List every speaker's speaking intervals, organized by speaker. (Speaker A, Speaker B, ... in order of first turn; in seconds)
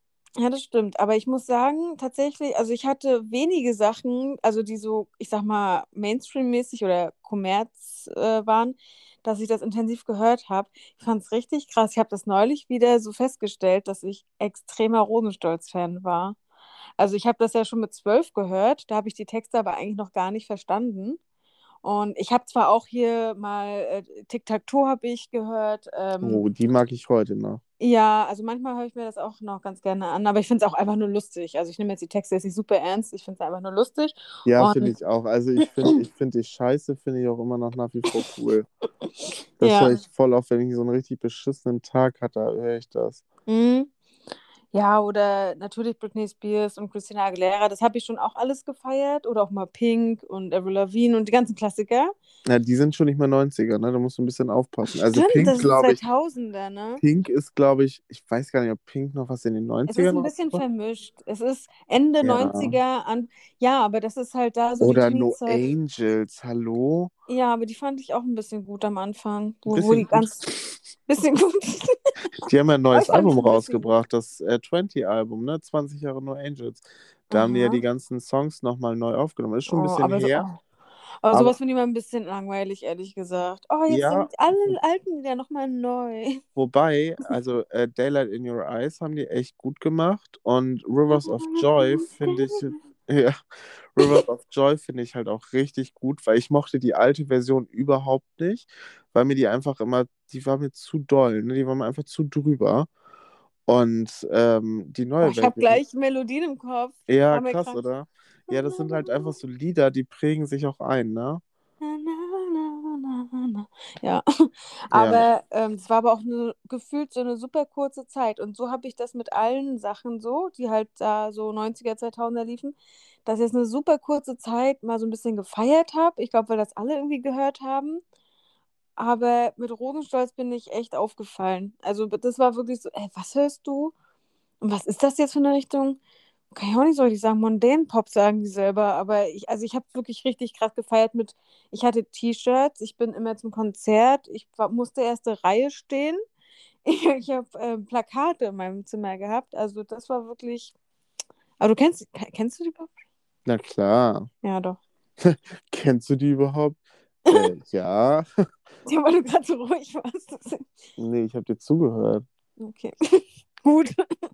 Speaker A: 0.4-16.4, 17.0-21.2, 21.8-26.4, 27.8-34.9, 35.6-36.0, 39.6-39.9, 43.5-43.9, 44.7-52.1, 55.1-57.0, 59.9-65.6, 67.3-70.4, 71.1-72.0, 72.9-73.9, 77.3-77.8, 79.7-80.6, 81.2-86.4, 91.2-92.7, 105.2-107.8, 108.5-109.3, 111.8-122.7, 123.2-128.0, 129.0-133.9, 134.6-136.0, 136.5-146.2, 146.8-150.7, 151.6-152.9, 154.4-154.8, 158.8-160.7, 162.6-163.9
Speaker B: 26.2-27.6, 34.5-38.7, 39.6-43.2, 52.5-56.0, 57.0-60.6, 62.2-62.8, 64.8-67.1, 69.7-70.7, 72.4-80.5, 83.9-84.8, 86.5-93.4, 93.9-102.9, 103.7-105.8, 107.1-111.4, 114.9-115.2, 153.4-154.3, 155.2-158.3, 161.0-162.2